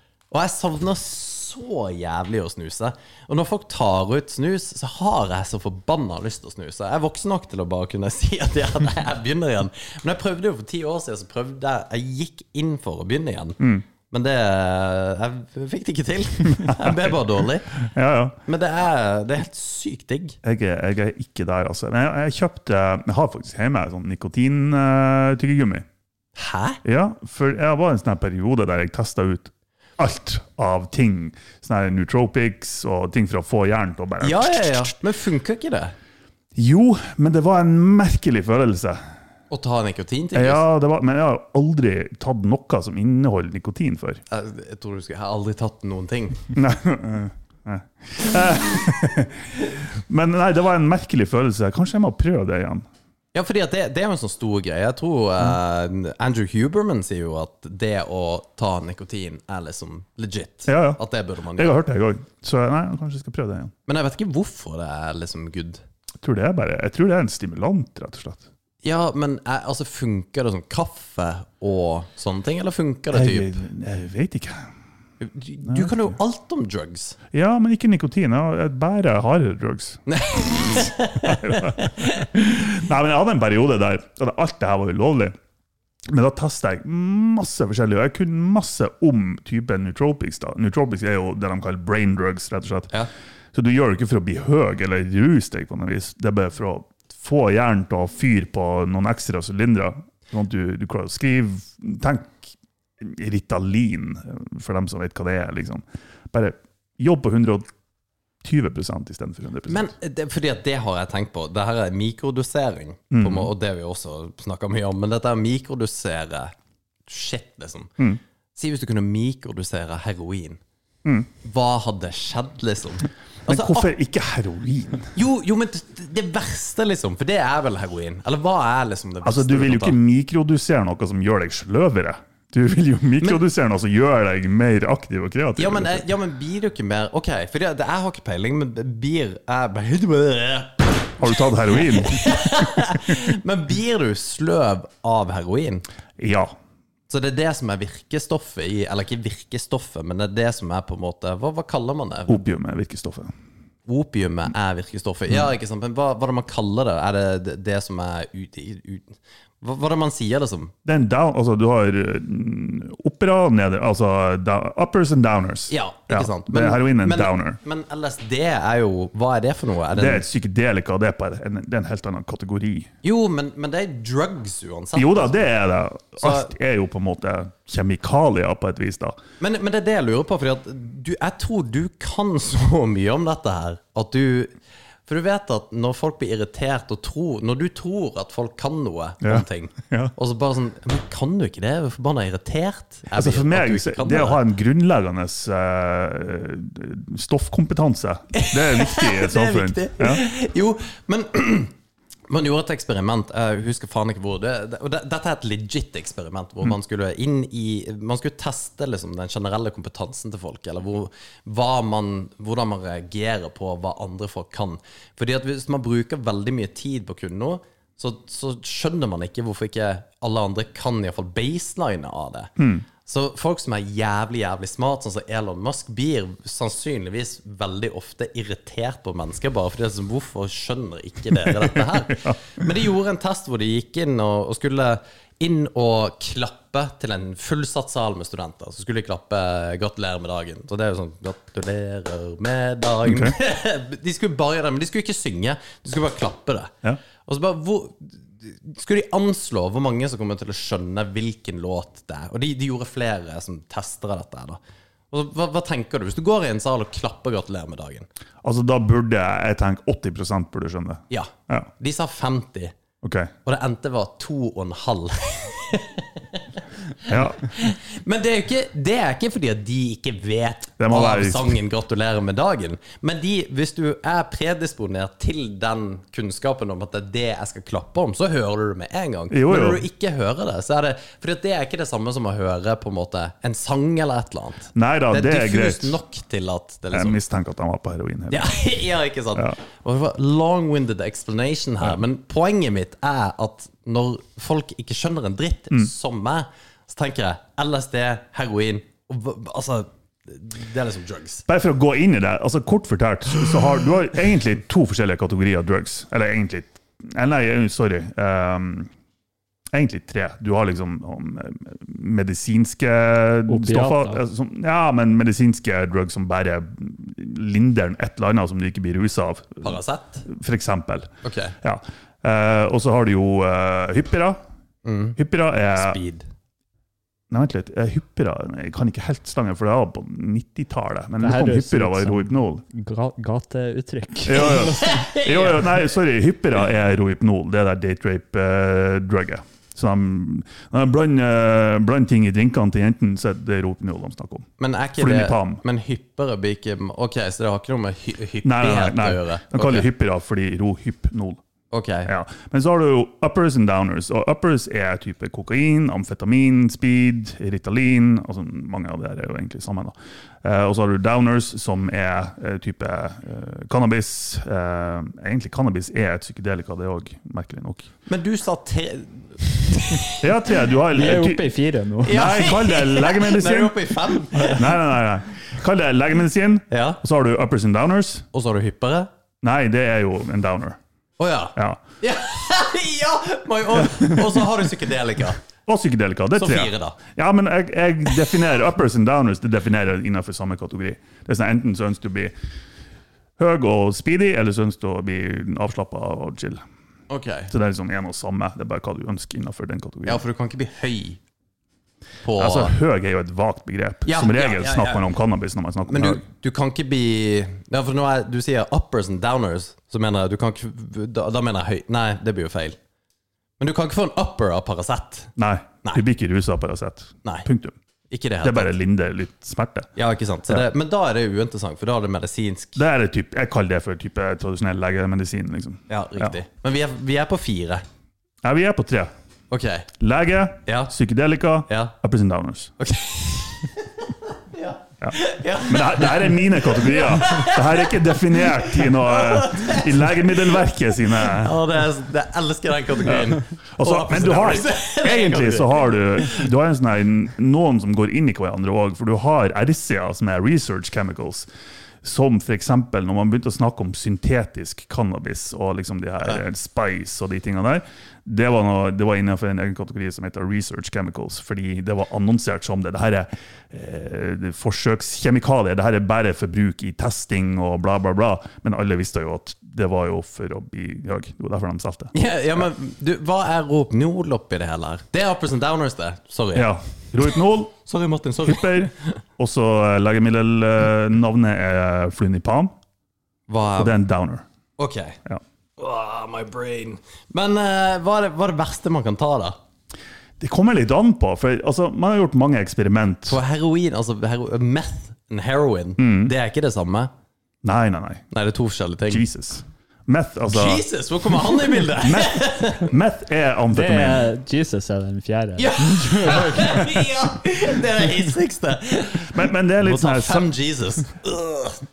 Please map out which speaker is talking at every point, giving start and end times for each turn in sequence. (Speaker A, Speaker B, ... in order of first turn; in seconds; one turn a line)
Speaker A: 0.3-17.7
Speaker B: 13.6-13.8
Speaker B: 16.5-17.2
Speaker B: 17.8-18.4
Speaker A: 18.5-20.4
Speaker B: 20.4-25.9
Speaker A: 26.4-26.8
Speaker B: 26.8-34.9
Speaker A: 34.2-35.9
Speaker B: 36.5-39.0
Speaker A: 39.5-40.6
Speaker B: 40.3-44.2
Speaker A: 44.3-46.5
Speaker B: 46.5-52.9
Speaker A: 53.3-61.8
Speaker B: 60.7-61.0
Speaker B: 61.6-63.7
Speaker A: 63.9-65.8
Speaker B: 66.2-68.5
Speaker A: 68.8-73.6
Speaker B: 73.1-74.7
Speaker A: 75.2-77.2
Speaker B: 75.7-76.1
Speaker B: 77.3-85.3
Speaker A: 80.1-82.3
Speaker B: 86.1-92.9
Speaker B: 93.5-107.7
Speaker B: 108.4-109.9
Speaker A: 109.7-116.5
Speaker B: 113.1-113.5
Speaker A: 117.1-117.9
Speaker A: 118.5-120.6
Speaker A: 121.4-123.9
Speaker B: 123.5-125.1
Speaker A: 125.2-130.0
Speaker B: 129.2-136.1
Speaker A: 135.6-145.8
Speaker B: 141.2-142.7
Speaker B: 146.2-146.5
Speaker A: 147.1-152.4
Speaker B: 152.3-153.3
Speaker A: 153.9-160.7
Speaker B: 160.8-167.6
Speaker A: 165.7-170.2
Speaker B: 169.9-172.9
Speaker A: 173.0-175.4
Speaker B: 174.9-179.2
Speaker A: 176.2-176.5
Speaker A: 179.4-184.5
Speaker A: 185.1-194.4
Speaker B: 189.2-190.1
Speaker B: 193.1-200.2
Speaker A: 198.3-201.7
Speaker A: 202.3-222.5
Speaker B: 222.6-222.8
Speaker A: 223.0-254.6
Speaker B: 231.4-232.4
Speaker B: 243.1-243.3
Speaker A: 255.1-258.1
Speaker B: 258.4-261.7
Speaker A: 261.1-262.8
Speaker B: 263.0-263.3
Speaker A: 263.4-287.2
Speaker B: 267.1-267.4
Speaker B: 270.8-271.6
Speaker B: 279.3-279.9
Speaker B: 284.7-286.0
Speaker B: 286.9-288.5
Speaker A: 288.3-301.4
Speaker B: 301.5-308.9
Speaker B: 309.7-321.1
Speaker C: 313.5-314.2
Speaker A: 319.6-320.3
Speaker A: 321.2-321.6
Speaker B: 321.6-324.4
Speaker A: 324.9-325.2
Speaker B: 325.2-326.0
Speaker A: 325.8-326.3
Speaker B: 327.3-332.6
Speaker C: 331.2-335.4
Speaker B: 334.3-345.6
Speaker A: 334.8-335.6
Speaker A: 344.6-349.9
Speaker B: 348.4-351.4
Speaker A: 351.7-352.1
Speaker B: 352.1-367.9
Speaker A: 368.1-370.3
Speaker B: 370.2-371.5
Speaker C: 370.9-372.4
Speaker B: 372.0-378.3
Speaker A: 372.1-374.7
Speaker A: 376.7-377.0
Speaker A: 378.3-379.1
Speaker B: 379.4-380.8
Speaker A: 381.2-385.4
Speaker B: 381.6-381.8
Speaker B: 383.9-384.2
Speaker B: 385.7-392.3
Speaker A: 386.4-387.0
Speaker B: 393.4-396.6
Speaker A: 397.1-397.5
Speaker B: 397.5-400.2
Speaker A: 400.1-401.2
Speaker A: 402.2-402.7
Speaker B: 402.4-406.2
Speaker A: 404.1-405.1
Speaker A: 405.9-412.8
Speaker A: 413.6-415.3
Speaker B: 415.4-417.8
Speaker A: 418.1-418.7
Speaker B: 418.4-419.9
Speaker A: 420.0-422.8
Speaker B: 422.8-426.4
Speaker A: 425.9-427.8
Speaker B: 428.4-429.1
Speaker A: 429.5-429.9
Speaker B: 430.0-432.7
Speaker A: 430.7-430.9
Speaker A: 431.7-431.9
Speaker A: 432.8-440.6
Speaker B: 435.0-441.6
Speaker A: 441.1-446.4
Speaker B: 443.0-451.5
Speaker B: 452.0-472.6
Speaker A: 472.1-476.7
Speaker B: 476.5-477.7
Speaker A: 477.8-479.2
Speaker B: 478.4-482.7
Speaker A: 483.5-483.9
Speaker B: 483.8-484.4
Speaker A: 484.8-485.2
Speaker A: 485.8-489.6
Speaker B: 490.4-493.4
Speaker A: 493.3-497.1
Speaker B: 496.0-496.3
Speaker B: 497.6-498.3
Speaker A: 498.3-499.2
Speaker B: 499.1-500.8
Speaker A: 500.5-502.9
Speaker B: 502.0-504.3
Speaker C: 503.7-507.1
Speaker A: 505.6-511.8
Speaker B: 509.3-510.5